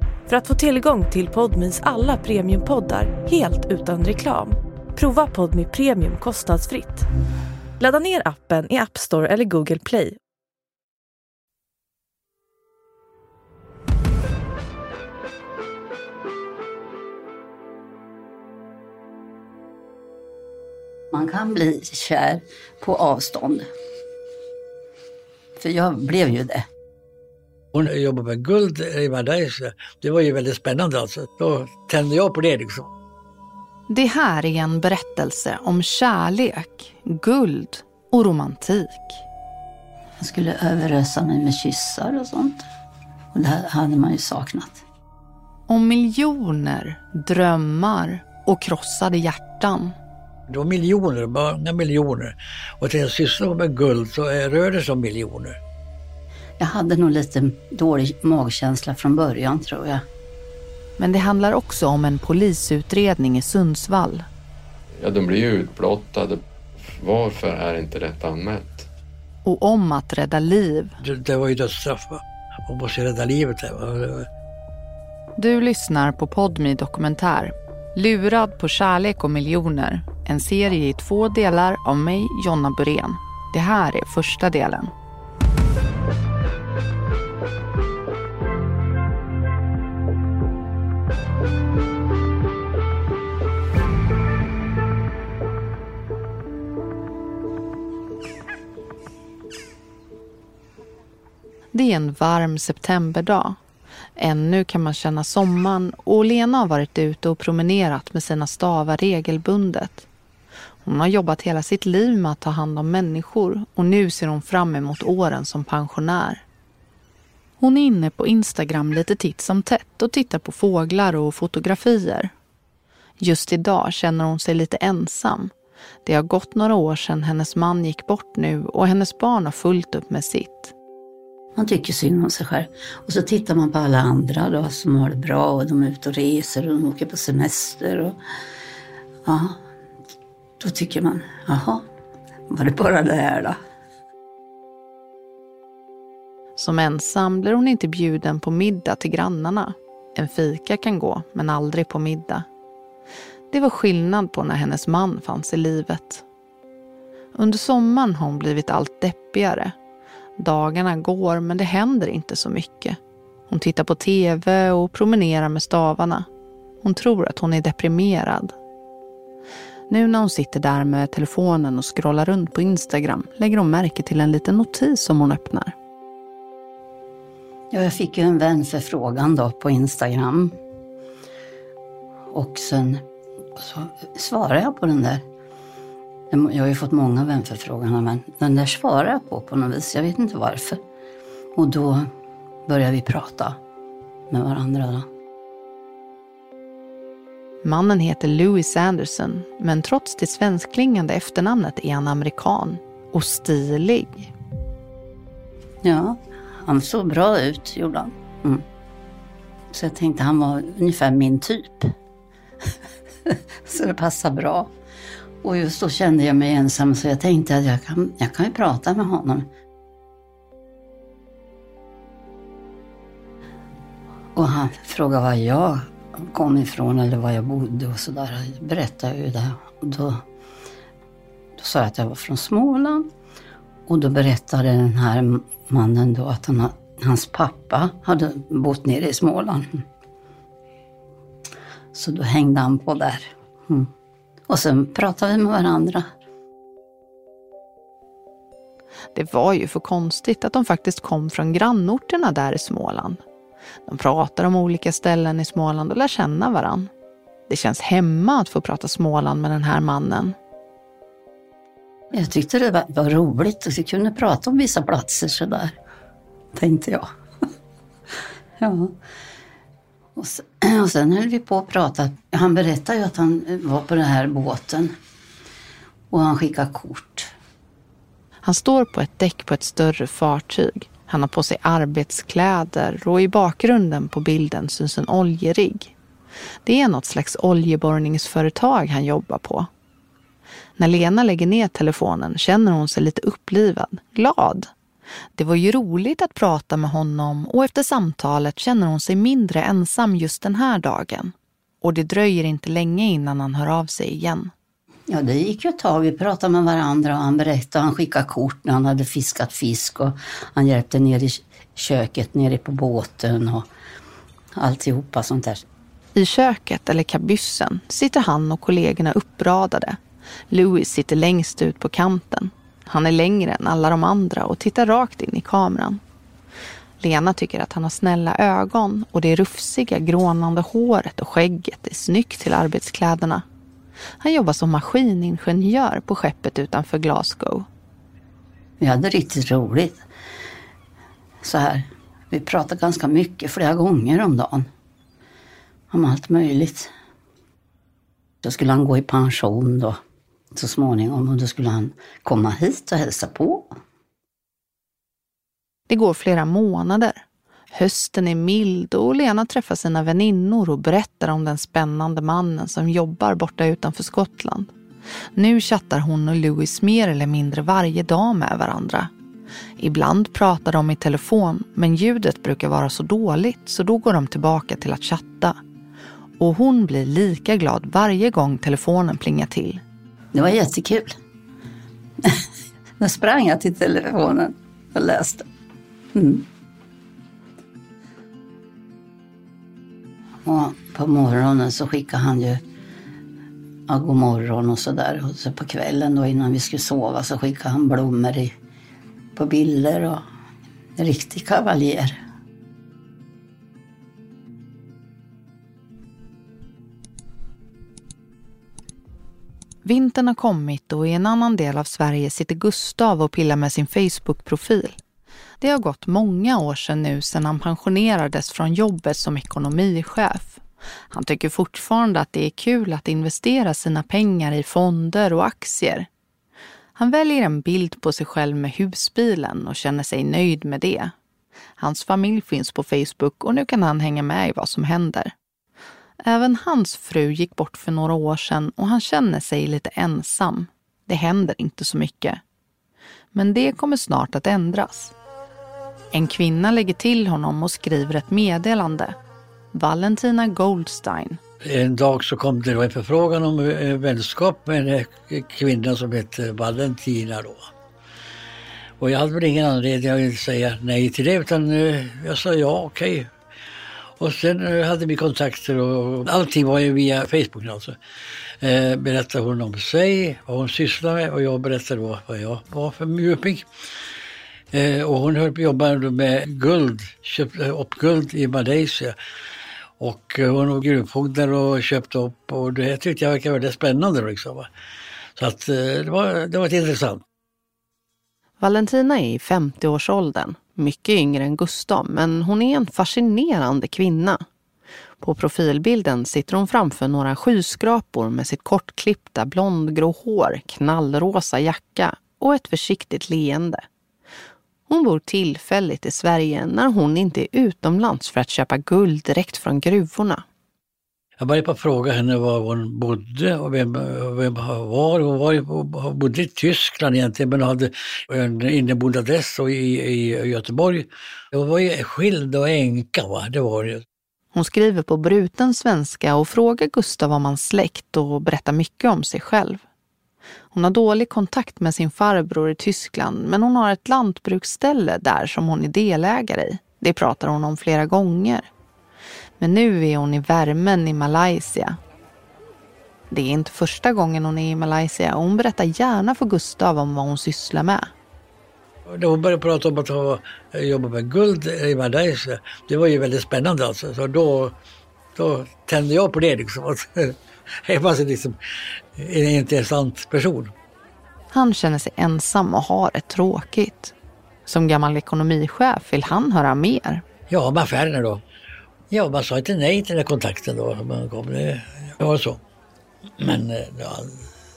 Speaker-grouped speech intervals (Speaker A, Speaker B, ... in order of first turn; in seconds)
Speaker A: 0.3-7.1, 7.8-10.2
Speaker B: 21.1-23.7, 25.6-26.7, 40.2-42.7, 43.3-44.8, 56.6-60.1, 131.6-138.2, 139.2-139.6, 140.6-141.8, 142.5-143.6, 177.7-180.6, 182.3-183.0, 183.6-185.2, 186.3-190.8, 191.6-192.1, 192.7-193.6, 194.3-195.1, 205.8-208.7, 209.7-211.9, 213.3-214.7, 215.4-219.5, 224.3-230.2, 231.6-233.1, 233.9-239.8, 241.9-243.9, 244.5-246.1, 262.1-265.8, 266.6-267.1, 268.6-269.0, 270.2-274.9, 276.1-277.3, 305.1-313.7, 314.6-315.6, 338.8-340.0, 341.4-344.7, 345.9-346.9, 348.4-350.0, 350.6-353.7, 380.3-381.2, 383.0-385.5, 386.1-386.5, 390.4-392.6, 393.9-398.6, 399.4-400.2, 401.0-402.2
Speaker C: 27.7-32.9, 50.5-55.6, 71.0-74.3, 451.6-457.6, 459.0-463.3, 464.2-468.0, 468.6-473.7, 474.7-479.1, 480.0-484.7, 485.4-487.2, 511.4-524.0, 549.1-554.8, 555.4-558.6, 559.1-560.7, 567.5-568.4, 569.1-572.6, 573.4-574.5
Speaker D: 33.9-39.2, 45.7-50.0, 61.0-64.3, 69.5-70.9, 75.4-84.9, 101.7-103.6, 104.2-110.1, 110.8-116.4, 117.6-122.3, 123.2-125.5, 126.0-130.7, 146.6-152.5, 153.5-156.2, 157.4-159.7, 160.4-163.0, 163.5-166.3, 166.8-168.6, 169.9-175.7, 197.6-204.3, 249.2-253.2, 253.9-256.9, 257.5-260.4, 278.4-285.9, 286.6-289.7, 290.8-294.7, 295.4-304.5, 316.1-320.0, 320.5-326.0, 327.0-333.4, 334.2-337.7, 355.9-364.7, 365.4-369.1, 369.8-375.6, 376.4-379.8, 409.9-415.0, 415.6-420.6, 421.1-426.1, 427.0-431.1, 431.8-435.3, 436.2-442.4, 443.3-445.1, 446.1-449.2, 449.7-451.4, 488.6-494.4, 495.2-503.8, 504.9-510.4, 524.5-529.8, 530.7-538.7, 539.6-542.0, 543.3-548.1, 561.5-564.1, 564.7-567.2
Speaker E: 65.0-68.9